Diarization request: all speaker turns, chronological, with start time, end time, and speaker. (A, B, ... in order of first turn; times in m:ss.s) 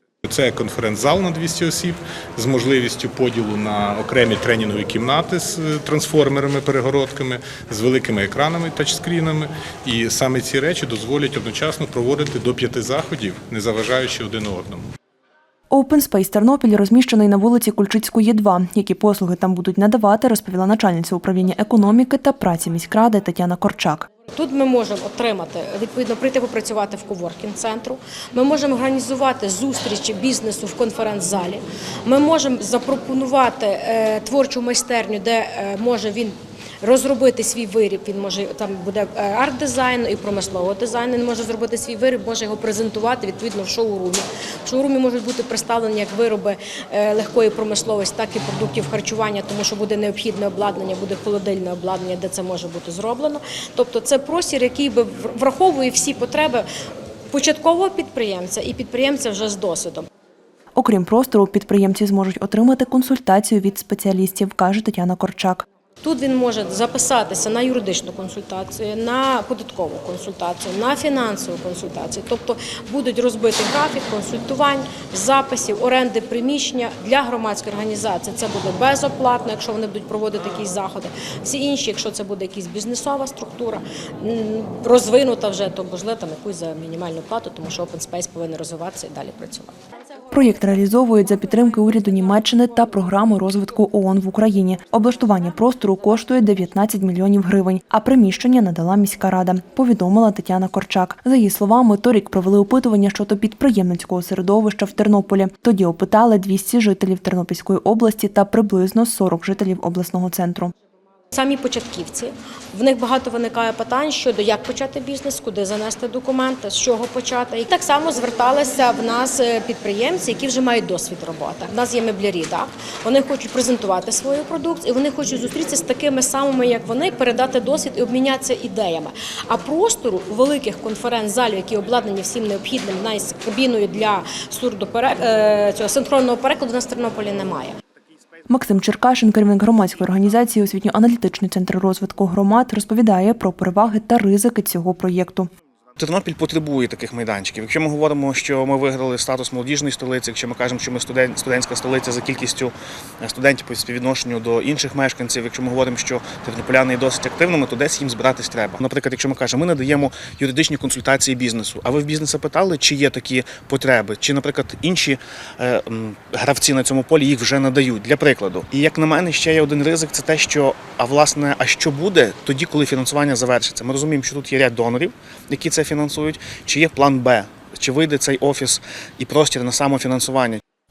0:00.2-0:14.8 A
0:15.7-0:24.1 B
0:24.3-0:56.6 C
0:57.3-1:00.1 C
1:00.8-1:05.6 B
1:06.0-1:29.7 C
1:30.3-1:50.7 B
1:51.3-2:17.8 C
2:18.5-2:25.5 B
2:26.0-3:00.6 D